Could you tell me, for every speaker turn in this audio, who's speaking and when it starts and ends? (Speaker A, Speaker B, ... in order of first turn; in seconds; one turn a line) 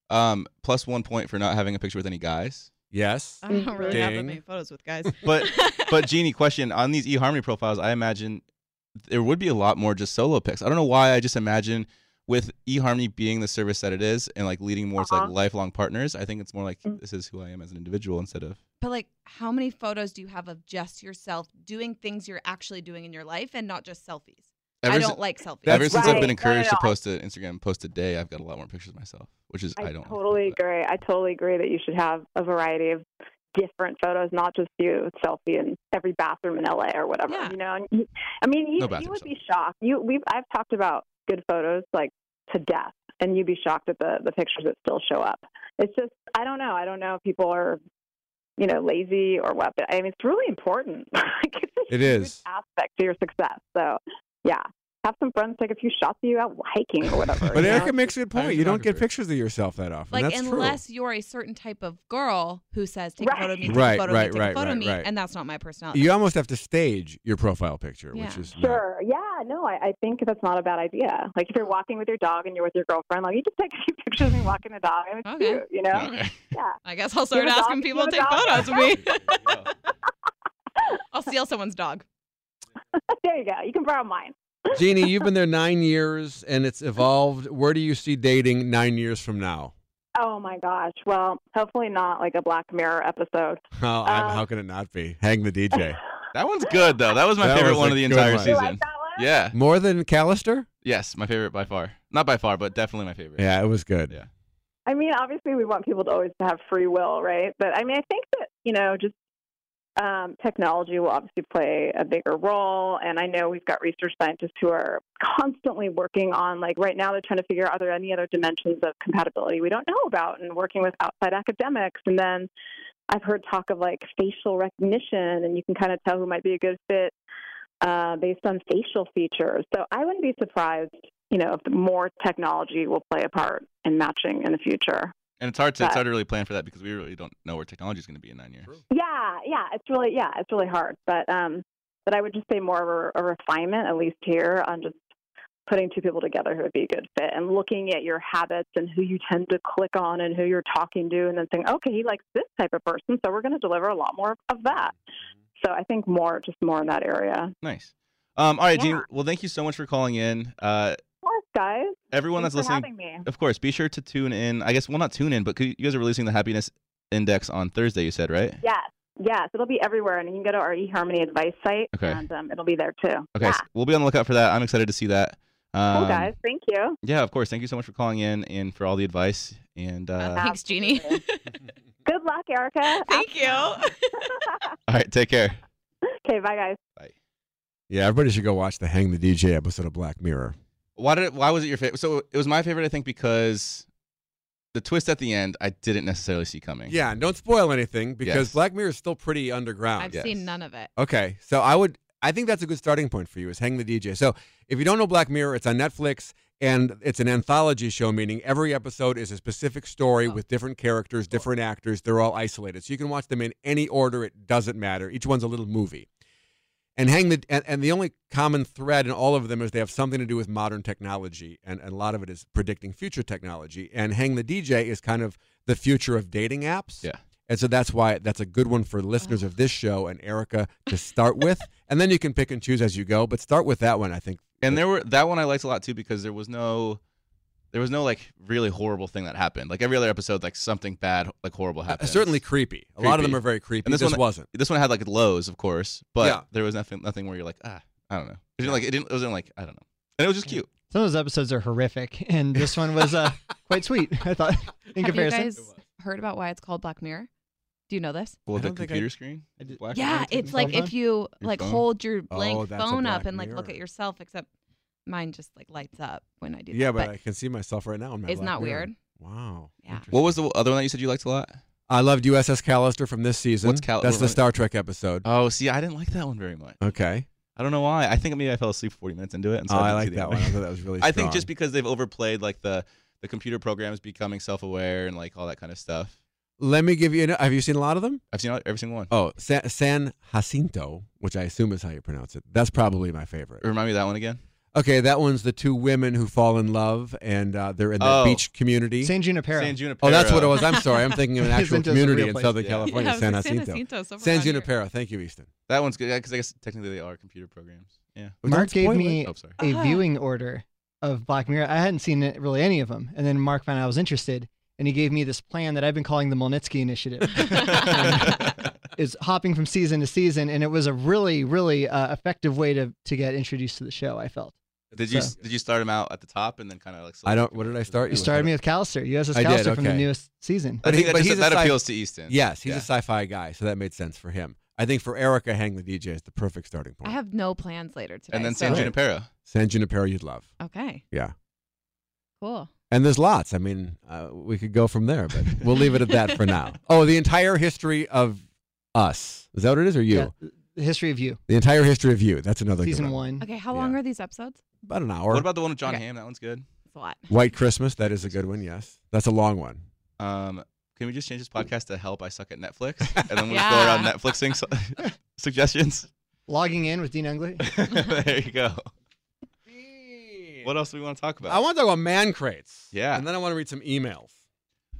Speaker A: 0.1-2.7
Speaker B: 2.9-4.4
Speaker C: 3.5-6.0
Speaker D: 3.5-4.0
Speaker A: 5.2-8.4
Speaker A: 9.1-18.6
Speaker D: 15.0-15.3
Speaker C: 18.8-26.2
Speaker A: 24.8-30.6
Speaker B: 25.7-26.3
Speaker D: 25.9-26.9
Speaker D: 29.8-47.8
Speaker C: 37.3-37.5
Speaker A: 38.8-39.3
Speaker D: 48.6-57.9
Speaker B: 51.9-52.4
Speaker A: 57.4-59.1
Speaker B: 57.5-60.8
Speaker C: 60.1-66.1
Speaker D: 63.2-63.8
Speaker B: 63.7-65.1
Speaker B: 65.9-68.8
Speaker C: 68.1-68.5
Speaker D: 68.6-76.8
Speaker C: 75.2-75.6
Speaker A: 75.9-76.4
Speaker C: 76.8-79.5
Speaker D: 77.3-79.1
Speaker A: 79.4-79.7
Speaker C: 80.9-82.0
Speaker D: 83.0-85.1
Speaker B: 84.7-89.7
Speaker D: 90.2-94.4
Speaker B: 93.8-96.0
Speaker A: 96.3-99.5
Speaker B: 97.4-98.5
Speaker D: 98.3-99.3
Speaker B: 99.5-100.7
Speaker A: 100.8-103.5
Speaker B: 103.4-104.2
Speaker D: 104.9-109.2
Speaker D: 110.0-122.5
Speaker D: 123.1-127.2
Speaker D: 127.8-135.1
Speaker A: 135.4-138.8
Speaker D: 138.9-145.0
Speaker D: 145.7-155.0
Speaker D: 155.6-157.5
Speaker A: 157.6-161.0
Speaker D: 158.7-159.0
Speaker D: 161.2-163.3
Speaker A: 162.1-168.6
Speaker D: 168.6-173.6
Speaker A: 171.9-172.2
Speaker A: 173.4-176.3
Speaker D: 175.9-177.0
Speaker A: 177.0-180.5
Speaker C: 180.2-181.6
Speaker D: 180.3-181.2
Speaker D: 182.1-184.7
Speaker C: 182.9-184.5
Speaker A: 184.9-185.6
Speaker D: 186.2-186.8
Speaker B: 187.9-190.6
Speaker A: 191.0-193.9
Speaker A: 194.7-196.9
Speaker B: 196.9-200.2
Speaker A: 198.2-198.6
Speaker C: 200.0-200.9
Speaker A: 200.1-200.4
Speaker B: 201.0-216.1
Speaker B: 217.0-234.8
Speaker A: 234.6-237.0
Speaker A: 237.7-242.4
Speaker B: 241.9-244.5
Speaker A: 243.0-250.7
Speaker E: 250.9-255.5
Speaker C: 255.0-257.3
Speaker C: 257.9-258.4
Speaker A: 258.5-260.9
Speaker B: 258.5-259.1
Speaker E: 259.6-260.9
Speaker C: 259.9-264.5
Speaker A: 261.4-261.8
Speaker B: 262.3-263.8
Speaker C: 265.1-267.1
Speaker B: 266.7-270.4
Speaker C: 268.3-269.0
Speaker A: 270.1-271.6
Speaker B: 271.9-275.2
Speaker A: 273.6-274.4
Speaker A: 275.2-276.8
Speaker B: 276.8-277.3
Speaker A: 277.6-286.1
Speaker B: 279.7-281.5
Speaker B: 286.6-288.2
Speaker A: 288.3-289.1
Speaker B: 289.1-293.6
Speaker A: 293.6-294.4
Speaker B: 294.7-299.1
Speaker A: 298.0-298.4
Speaker E: 299.0-299.8
Speaker A: 299.5-300.8
Speaker B: 300.0-305.5
Speaker C: 300.7-301.1
Speaker E: 301.4-302.5
Speaker A: 302.6-302.9
Speaker C: 302.9-304.7
Speaker A: 305.7-308.4
Speaker B: 308.4-309.3
Speaker E: 308.4-325.3
Speaker A: 309.2-309.6
Speaker C: 309.6-310.1
Speaker A: 317.4-318.6
Speaker A: 324.9-328.4
Speaker B: 327.2-328.5
Speaker E: 328.1-330.8
Speaker B: 329.3-330.1
Speaker A: 330.8-332.9
Speaker B: 330.8-337.2
Speaker C: 337.0-338.9
Speaker A: 338.3-339.3
Speaker B: 338.6-338.9
Speaker B: 339.5-340.5
Speaker C: 340.6-341.0
Speaker C: 342.4-342.7
Speaker B: 342.9-348.4
Speaker C: 346.0-346.6
Speaker B: 348.9-350.3
Speaker E: 350.1-351.4
Speaker B: 351.5-353.2
Speaker E: 352.8-353.4
Speaker C: 353.4-354.6
Speaker B: 353.7-354.0
Speaker B: 354.8-355.5
Speaker A: 355.3-356.6
Speaker C: 356.9-357.3
Speaker B: 357.3-359.8
Speaker A: 360.2-366.1
Speaker C: 363.5-364.1
Speaker E: 366.5-367.6
Speaker A: 367.6-368.9
Speaker B: 369.7-370.7
Speaker A: 370.6-371.6
Speaker B: 371.5-374.3
Speaker A: 372.9-373.3